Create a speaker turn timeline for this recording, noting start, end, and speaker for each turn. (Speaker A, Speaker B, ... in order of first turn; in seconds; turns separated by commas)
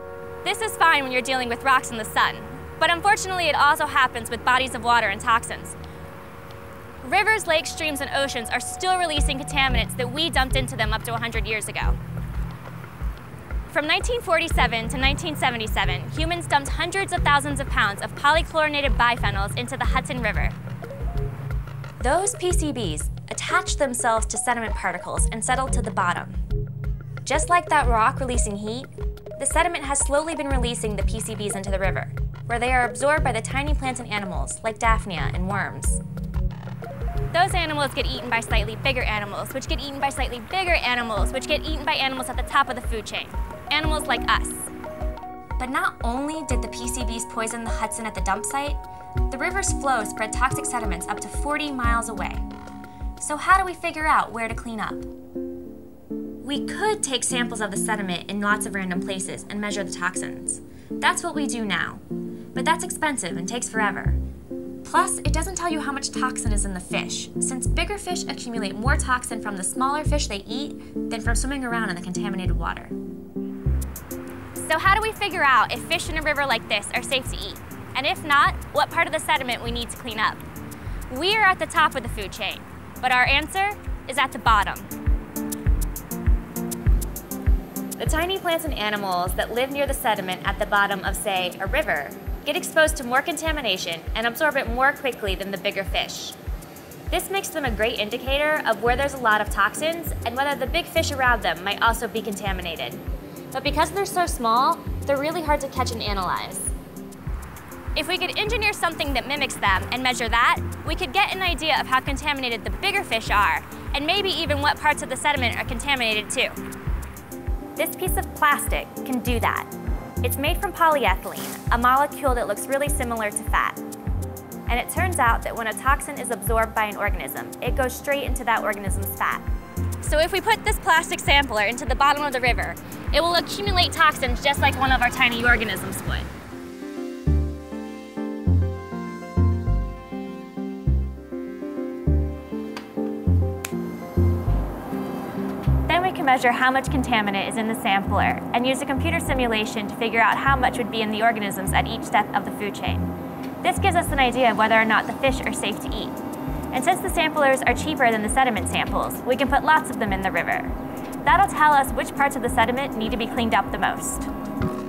Speaker A: 0.4-5.8, Speaker A: 7.0-12.0, Speaker A: 13.7-20.6, Speaker A: 22.0-26.3, Speaker A: 27.2-36.0, Speaker A: 37.3-44.7, Speaker A: 45.6-52.4, Speaker A: 53.2-55.0, Speaker A: 56.4-62.0, Speaker A: 62.5-64.2, Speaker A: 64.8-72.9, Speaker A: 74.5-80.4, Speaker A: 81.1-84.9, Speaker A: 88.0-96.4, Speaker A: 97.1-106.7, Speaker A: 107.9-116.6, Speaker A: 117.8-119.7, Speaker A: 120.2-123.8, Speaker A: 124.7-129.4, Speaker A: 130.0-136.3, Speaker A: 145.8-153.1, Speaker A: 153.6-156.2, Speaker A: 156.7-164.3